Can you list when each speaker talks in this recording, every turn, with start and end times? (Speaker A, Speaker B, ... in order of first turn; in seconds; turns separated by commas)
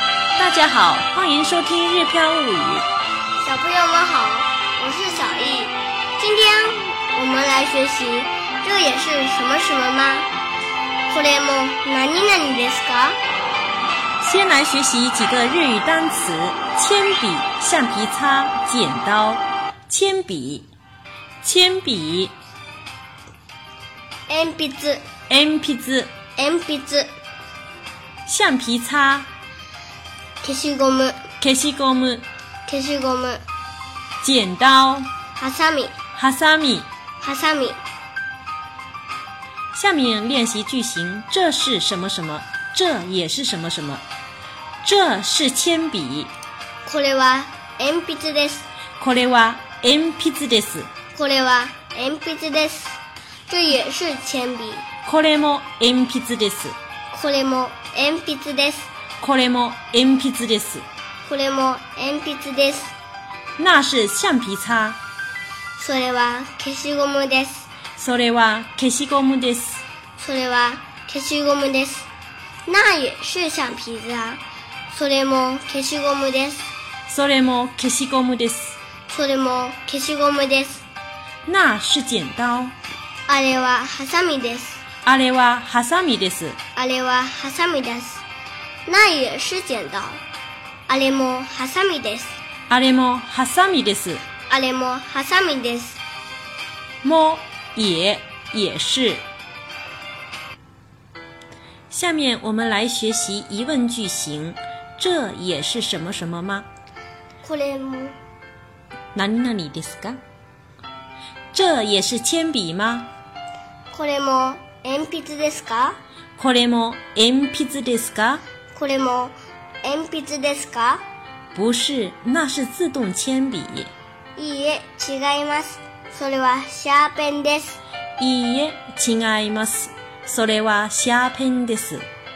Speaker A: 0.4-2.9, Speaker B: 3.4-10.3, Speaker B: 11.1-13.2, Speaker A: 14.2-20.7, Speaker A: 21.4-22.3, Speaker B: 24.3-25.0, Speaker A: 25.3-26.1, Speaker B: 26.4-27.1, Speaker A: 28.2-29.3, Speaker B: 30.4-31.2, Speaker A: 31.4-32.2, Speaker B: 32.6-33.4, Speaker A: 34.2-35.1, Speaker B: 35.4-35.9, Speaker A: 36.1-36.9, Speaker B: 37.2-37.8, Speaker A: 39.7-44.0, Speaker A: 44.8-46.3, Speaker B: 46.8-48.6, Speaker A: 49.0-50.9, Speaker B: 51.1-54.8, Speaker A: 55.0-56.8, Speaker B: 57.1-58.9, Speaker A: 59.2-60.9, Speaker B: 61.2-62.9, Speaker A: 63.6-65.0, Speaker B: 65.8-67.7, Speaker A: 68.0-69.8, Speaker B: 70.2-72.1, Speaker B: 72.7-76.7, Speaker A: 77.1-78.8, Speaker B: 79.1-80.8, Speaker A: 81.5-82.7, Speaker B: 83.3-84.8, Speaker A: 85.0-86.6, Speaker B: 86.7-88.2, Speaker B: 88.9-90.2, Speaker B: 90.9-92.4, Speaker A: 92.7-94.2, Speaker B: 94.5-96.0, Speaker A: 97.0-99.2, Speaker A: 101.9-106.7, Speaker B: 107.4-108.2, Speaker A: 109.1-110.2, Speaker A: 111.5-113.1, Speaker B: 113.9-116.0, Speaker A: 116.4-118.4, Speaker B: 118.7-121.0, Speaker A: 121.5-123.9, Speaker B: 124.3-127.8, Speaker A: 128.2-132.1